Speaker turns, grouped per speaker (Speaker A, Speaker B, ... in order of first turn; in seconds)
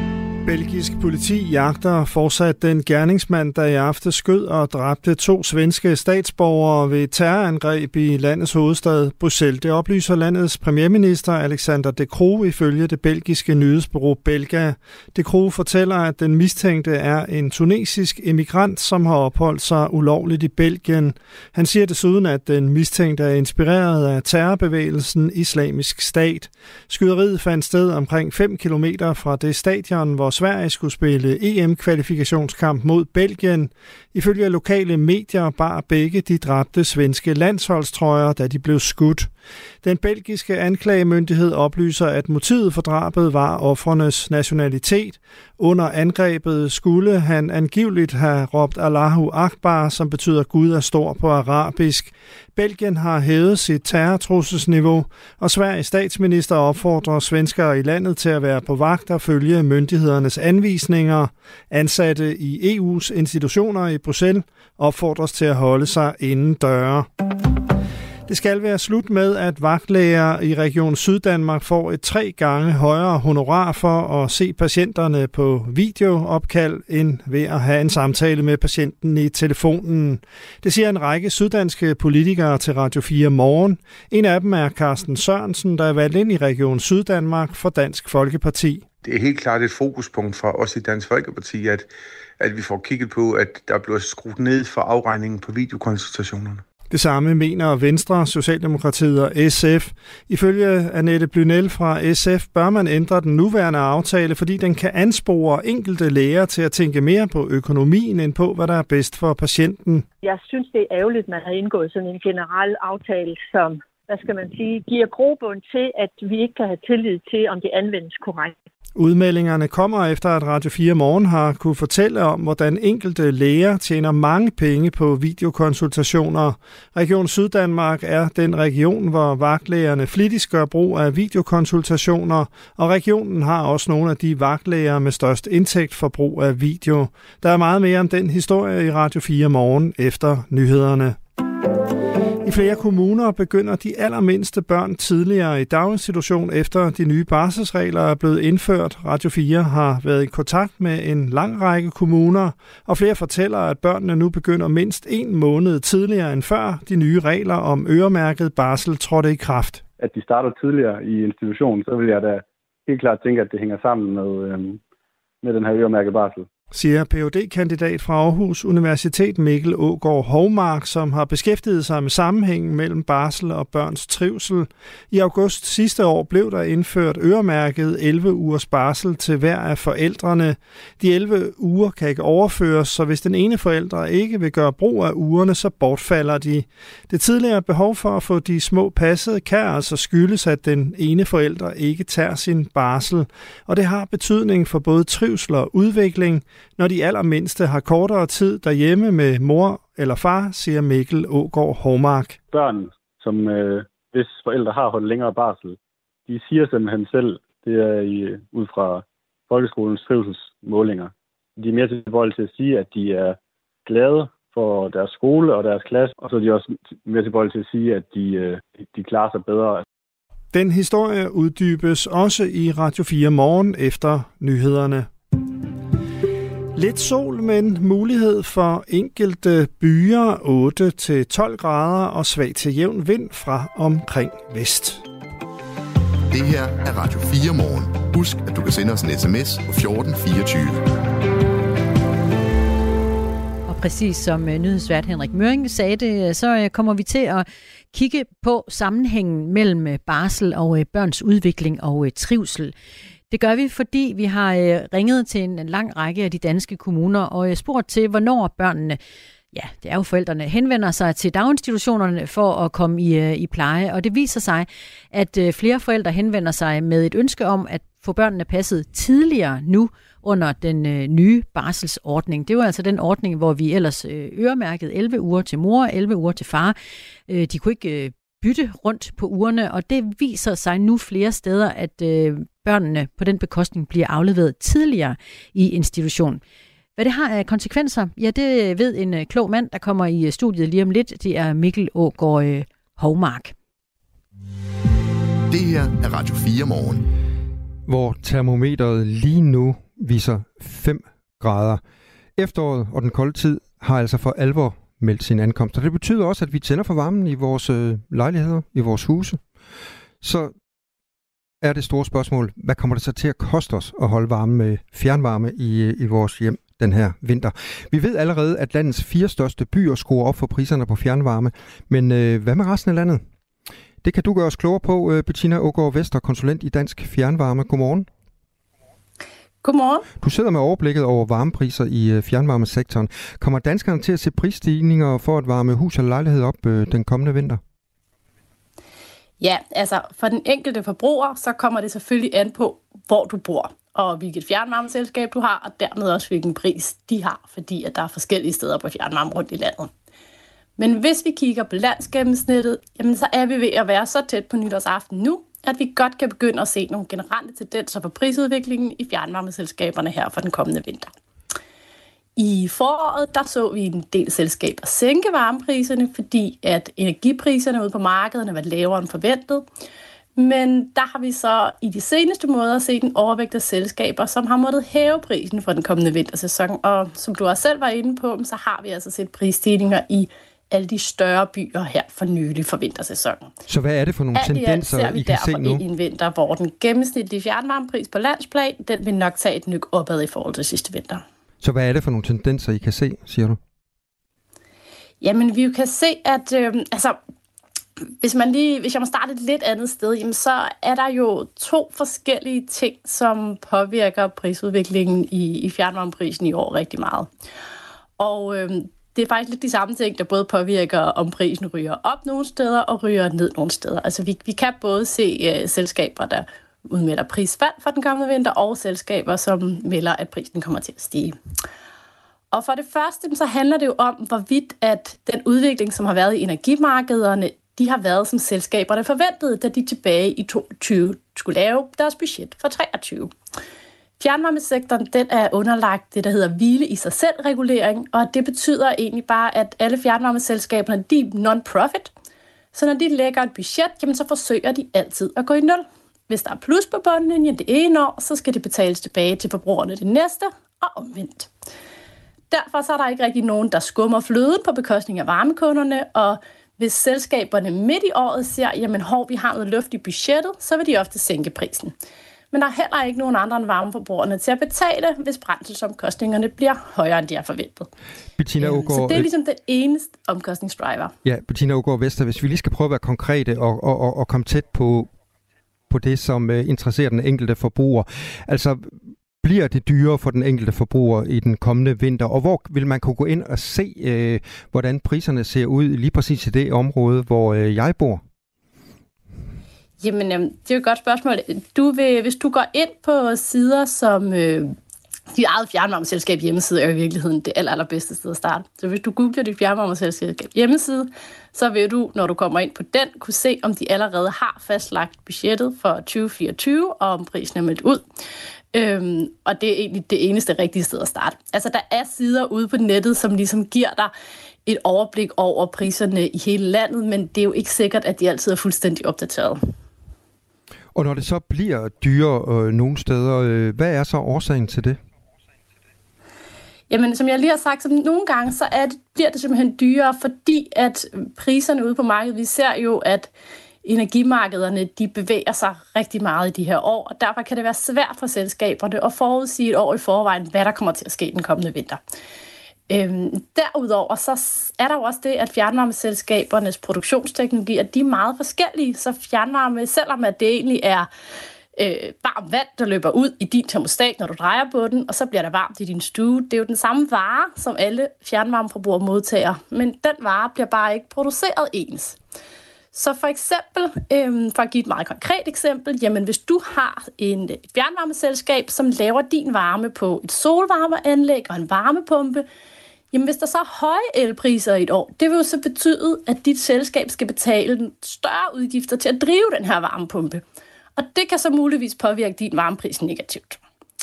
Speaker A: 0.5-39.3, 39.8-67.1, 68.3-88.9, 96.9-110.1, 119.0-141.2, 142.4-159.8, 166.7-202.4, 220.5-225.1, 226.8-235.0
Speaker B: 89.0-91.9, 92.4-96.6
Speaker C: 110.2-118.5
Speaker D: 160.0-164.8, 165.4-166.5, 202.5-205.8, 206.3-219.8
Speaker E: 236.3-240.8, 295.5-297.0
Speaker F: 243.7-252.7, 253.3-259.0, 259.5-276.8, 277.3-286.4, 287.0-293.5
Speaker G: 297.9-301.8, 302.4-309.4, 310.2-310.5, 311.6-323.2, 324.0-328.1, 330.2-337.6, 383.7-385.8, 391.6-393.6, 468.4-469.3, 471.2-475.1, 475.9-488.2, 521.0-525.0
Speaker H: 329.6-330.1, 339.4-349.9, 350.8-361.1, 362.4-369.7, 370.4-383.5, 384.4-391.2, 395.2-397.2, 398.2-407.3, 408.2-421.4, 422.5-433.3, 434.2-442.1, 442.7-451.5, 452.5-461.9, 462.5-467.9, 468.6-471.1, 490.0-494.8, 495.3-508.1, 508.7-514.1, 514.7-519.6, 526.9-533.3, 533.8-542.0, 542.9-551.1, 551.8-562.2, 562.9-572.5, 573.1-580.4, 581.0-583.6